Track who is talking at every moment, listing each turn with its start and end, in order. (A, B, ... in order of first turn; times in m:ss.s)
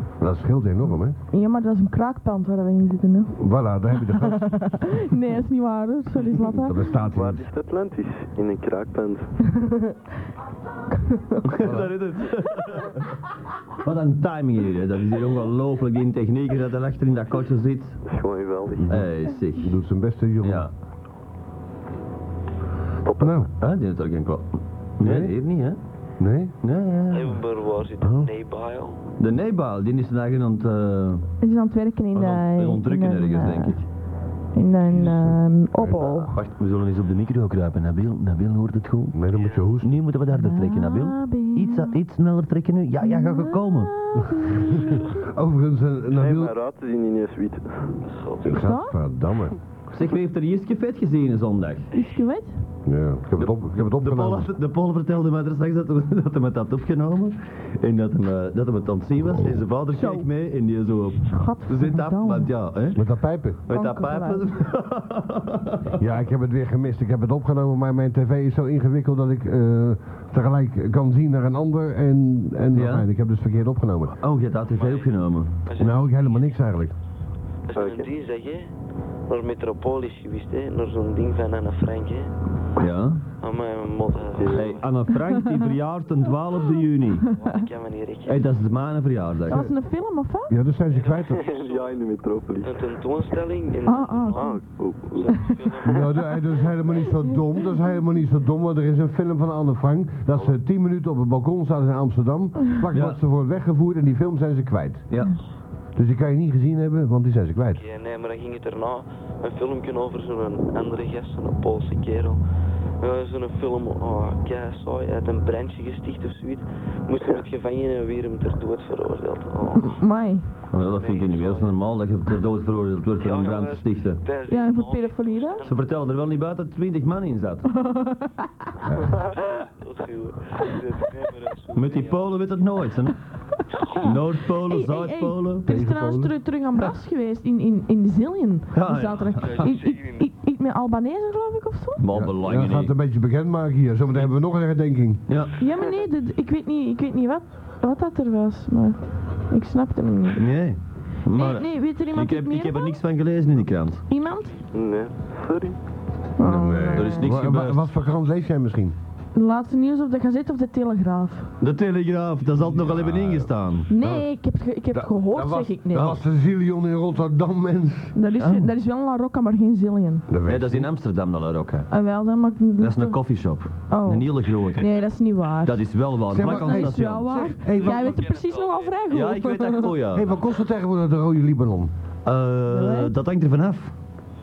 0:00.2-0:01.2 A
0:01.3-0:03.4 B
0:03.4-0:04.9 A
0:04.2-0:06.8 B
0:06.5-0:07.4 A
0:07.1-0:09.3 C
0:09.5-0:09.9 B
0:11.0-0:11.4 B
0:11.4-0:13.2 D
0:11.6-0:11.9 A
0:13.8-0:18.0 D
0:18.0-0:18.8 C
0:18.8-0:20.7 A
0:18.9-0:19.7 D
0:20.4-0:20.7 D
0:23.0-0:23.4 C
0:23.2-0:23.5 A
0:23.6-0:25.8 D
0:25.0-0:25.3 A
0:26.2-0:26.5 A
0:26.6-0:27.4 D
0:27.1-0:29.0 E
0:28.0-0:28.3 A
0:29.2-0:31.3 D
0:31.4-0:33.8 B
0:32.1-0:33.8 D
0:34.5-0:36.3 B
0:35.0-0:36.3 A
0:36.3-0:39.2 D
0:39.1-0:39.9 A
0:39.3-0:39.7 E
0:39.8-0:43.9 D
0:40.3-0:41.9 B
0:43.0-0:45.1 B
0:44.2-0:46.5 A
0:46.1-0:47.9 C
0:48.0-0:48.6 E
0:48.4-0:49.6 A
0:48.5-0:49.0 B
0:49.9-0:51.9 D
0:51.9-0:52.6 B
0:52.8-0:54.5 A
0:53.4-1:06.0 D
0:59.9-1:00.3 B
1:01.3-1:02.5 B
1:02.9-1:03.6 A
1:03.7-1:04.4 B
1:06.0-1:14.2 A
1:12.7-1:13.1 D
1:14.2-1:15.6 D
1:14.7-1:15.1 E
1:15.6-1:16.3 E
1:15.8-1:16.9 A
1:17.7-1:18.7 E
1:17.8-1:18.1 C
1:19.3-1:22.3 E
1:22.8-1:23.2 D
1:23.4-1:24.8 E
1:24.3-1:24.7 C
1:24.5-1:27.3 D
1:27.3-1:27.6 B
1:27.3-1:28.5 E
1:28.2-1:29.7 D
1:29.5-1:30.5 B
1:30.5-1:31.4 A
1:30.9-1:32.0 E
1:31.3-1:32.8 C
1:32.6-1:36.1 E
1:33.8-1:34.6 B
1:34.4-1:36.0 C
1:35.8-1:45.0 A
1:42.9-1:43.2 D
1:46.0-1:47.8 A
1:47.8-1:52.4 E
1:53.0-2:00.0 E
1:59.8-2:00.5 B
2:00.7-2:04.2 D
2:00.8-2:01.8 E
2:03.2-2:06.1 E
2:04.5-2:05.6 B
2:05.6-2:07.7 D
2:07.7-2:08.5 B
2:08.8-2:09.2 A
2:09.0-2:12.3 E
2:11.7-2:13.2 D
2:14.0-2:22.0 B
2:14.0-2:15.6 D
2:15.6-2:16.3 A
2:18.7-2:19.7 D
2:19.4-2:20.3 E
2:22.0-2:22.9 D
2:22.1-2:25.2 A
2:25.3-2:25.5 D
2:25.6-2:30.4 B
2:30.4-2:34.0 D
2:31.3-2:33.0 B
2:34.1-2:34.6 B
2:34.7-2:35.8 C
2:36.4-2:37.3 B
2:36.4-2:39.0 A
2:36.9-2:37.8 D
2:39.3-2:41.5 B
2:41.6-2:43.9 D
2:42.7-2:44.3 A
2:43.9-2:46.2 B
2:44.9-2:48.1 A
2:48.1-2:50.2 B
2:48.4-2:48.7 D
2:50.3-2:50.9 A
2:50.4-2:51.9 D
2:51.9-2:53.2 B
2:52.8-2:54.9 D
2:53.9-3:00.0 B
2:55.6-2:57.5 D
2:56.3-2:58.2 A
2:57.6-2:59.1 E
2:59.1-3:00.4 D
3:00.1-3:01.9 A
3:02.2-3:03.9 D
3:02.7-3:03.1 B